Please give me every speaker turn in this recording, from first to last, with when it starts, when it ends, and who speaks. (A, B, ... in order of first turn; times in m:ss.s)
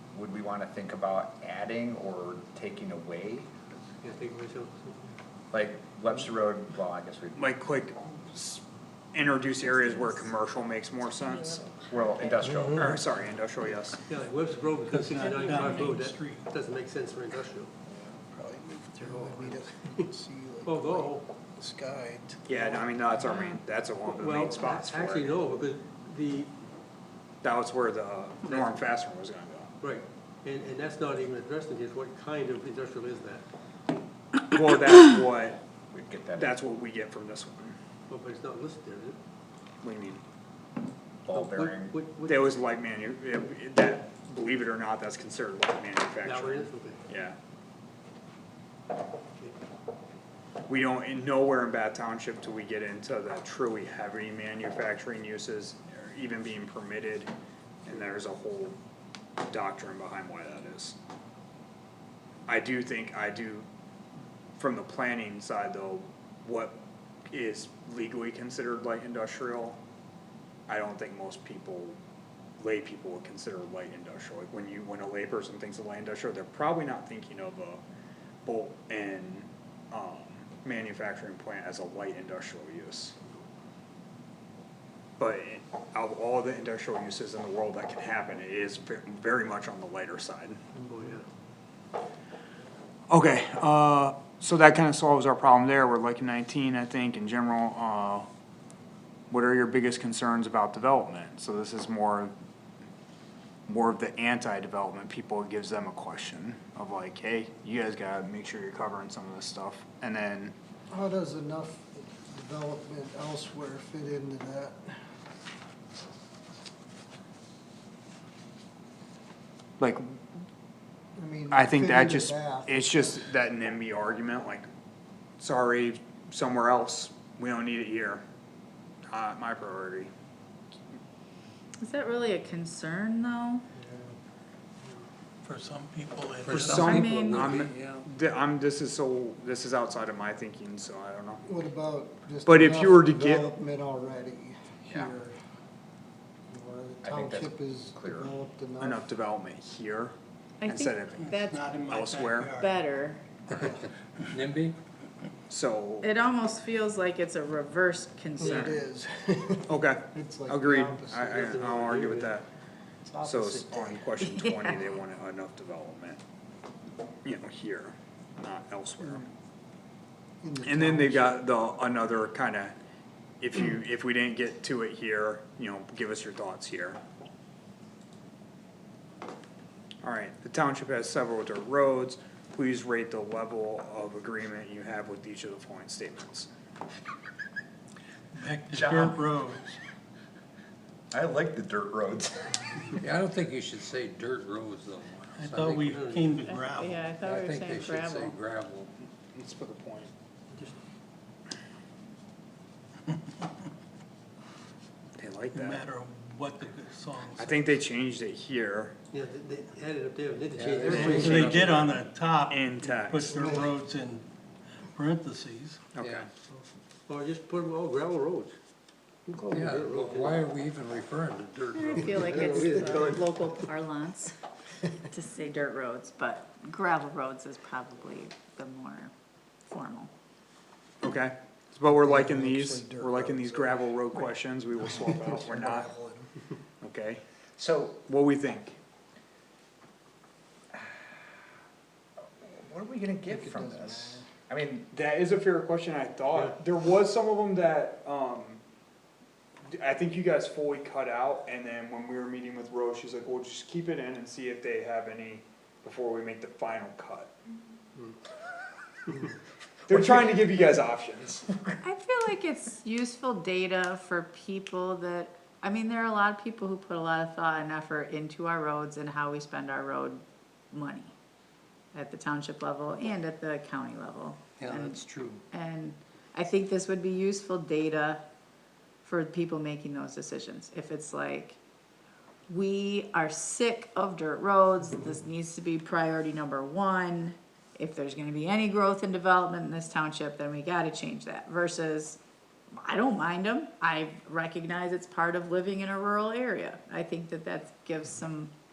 0:00.1-0:03.5 A
0:04.0-0:05.0 B
0:05.5-0:07.5 A
0:07.4-0:11.7 C
0:11.9-0:12.9 A
0:12.6-0:14.0 C
0:14.1-0:17.7 B
0:14.8-0:16.5 D
0:15.2-0:15.6 E
0:18.3-0:22.4 F
0:19.0-0:20.0 B
0:20.6-0:21.2 B
0:22.5-0:25.6 C
0:23.2-0:23.6 E
0:24.1-0:26.5 B
0:27.4-0:29.7 C
0:29.8-0:33.4 B
0:34.4-0:35.6 C
0:35.9-0:36.6 A
0:36.4-0:37.8 C
0:38.1-0:39.2 B
0:39.8-0:40.2 C
0:41.2-0:42.0 A
0:41.3-0:42.5 B
0:42.3-0:47.4 C
0:46.2-0:47.0 B
0:50.7-0:57.3 C
0:57.8-0:58.8 C
0:59.4-1:01.0 C
1:02.5-1:03.7 C
1:04.6-1:06.8 C
1:07.3-1:09.8 C
1:10.7-1:12.0 C
1:12.6-1:17.8 C
1:18.4-1:23.2 C
1:25.2-1:30.6 C
1:30.9-1:31.2 B
1:33.1-1:38.3 C
1:39.3-1:42.3 C
1:43.7-1:50.5 C
1:50.9-1:55.0 F
1:59.8-2:00.2 C
2:01.2-2:03.3 F
2:01.5-2:04.7 C
2:05.4-2:08.2 C
2:09.1-2:10.1 C
2:11.8-2:13.6 E
2:13.8-2:14.2 F
2:15.4-2:17.1 D
2:16.4-2:18.1 G
2:16.5-2:21.4 C
2:16.8-2:17.5 E
2:21.4-2:25.4 F
2:22.4-2:23.5 C
2:26.5-2:29.0 F
2:27.0-2:28.4 A
2:28.8-2:30.1 C
2:30.6-2:31.7 E
2:30.6-2:32.5 C
2:31.2-2:32.8 D
2:32.5-2:33.2 E
2:34.3-2:34.8 G
2:35.5-2:36.1 C
2:36.0-2:38.8 E
2:38.4-2:41.6 F
2:38.4-2:38.8 C
2:39.7-2:42.5 C
2:41.3-2:42.4 B
2:43.1-2:44.0 F
2:43.2-2:46.2 C
2:44.2-2:44.9 E
2:47.2-2:49.3 C
2:50.4-2:51.6 F
2:50.6-2:52.8 C
2:53.4-2:57.0 C
3:00.0-3:06.5 C
3:08.3-3:09.8 D
3:08.7-3:09.2 A
3:11.1-3:12.7 A
3:13.0-3:16.4 G
3:15.4-3:17.2 D
3:15.8-3:16.3 B
3:16.4-3:18.4 E
3:17.2-3:18.9 G
3:19.3-3:20.1 C
3:20.5-3:20.8 B
3:25.2-3:25.8 C
3:25.5-3:27.7 D
3:27.4-3:29.0 C
3:29.1-3:31.8 B
3:30.6-3:32.1 G
3:30.8-3:34.2 D
3:31.0-3:31.3 C
3:32.5-3:33.7 C
3:33.3-3:33.6 F
3:34.9-3:35.8 D
3:36.0-3:36.3 C
3:36.0-3:36.2 G
3:37.1-3:38.5 B
3:39.3-3:40.5 B
3:39.5-3:42.4 G
3:41.7-3:44.4 E
3:42.2-3:43.5 B
3:42.5-3:43.1 F
3:45.1-3:49.1 E
3:49.7-3:50.1 E
3:51.0-3:55.9 C
3:51.9-3:54.2 F
3:54.7-3:56.3 F
3:56.8-3:57.2 C
3:57.6-3:58.0 A
3:58.0-3:58.8 C
4:00.7-4:01.0 A
4:02.4-4:04.9 A
4:03.3-4:04.3 F
4:04.9-4:08.6 C
4:09.7-4:17.3 C
4:19.9-4:21.7 C
4:21.8-4:31.1 E
4:31.9-4:38.2 E
4:34.6-4:35.4 G
4:39.0-4:41.6 E
4:42.5-4:52.2 E
4:52.8-4:58.5 E